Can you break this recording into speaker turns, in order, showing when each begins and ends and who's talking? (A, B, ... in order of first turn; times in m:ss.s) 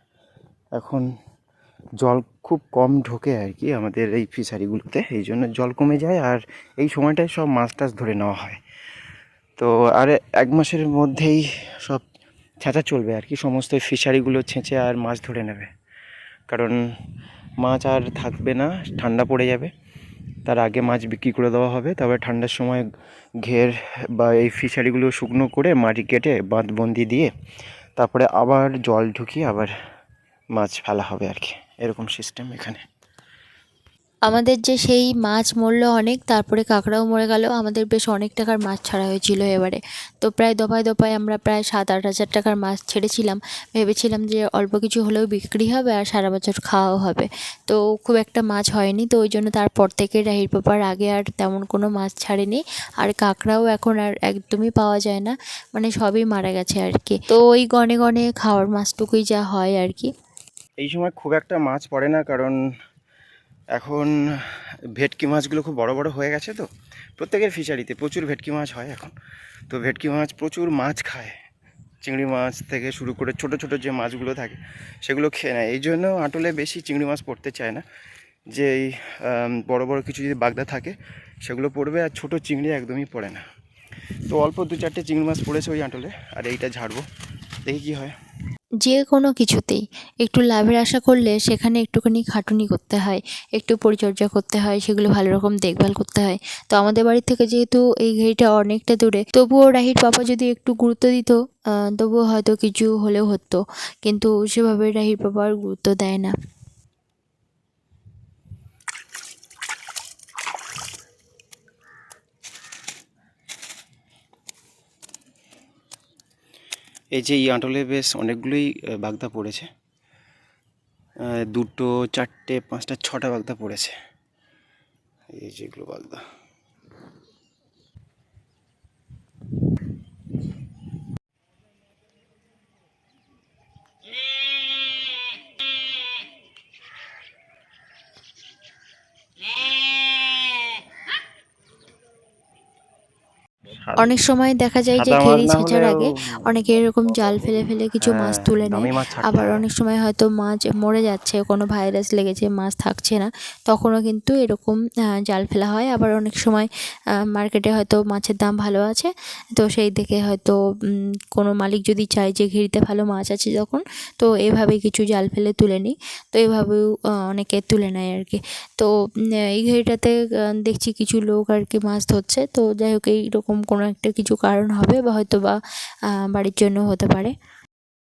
0:00.8-0:01.0 A
0:02.0-0:08.6 A
0:09.6-0:12.0 A
0:12.6-0:15.7 A
0:16.5-0:16.8 A
0:17.6-0:19.7 A
0:20.5-0:22.9 A
0:23.4-0:27.3 A
0:28.0-0:29.7 A
0:30.6-0:32.8 A
0:34.3-1:00.1 B
1:00.8-1:02.6 A
1:03.8-1:04.1 A
1:05.0-1:06.7 A
1:07.2-1:09.1 A
1:09.7-1:11.3 A
1:12.0-1:17.8 A
1:18.5-1:23.4 A
1:24.3-1:27.0 A
1:27.7-1:28.2 A
1:28.8-1:46.3 B
1:57.2-1:59.7 A
2:01.2-2:03.9 A
2:05.3-2:06.2 A
2:23.8-2:24.2 A
2:24.0-2:36.7 B
2:25.0-2:26.5 A
2:28.0-2:29.6 A
2:37.3-2:48.9 B
2:49.5-2:55.6 B
2:56.1-2:57.3 B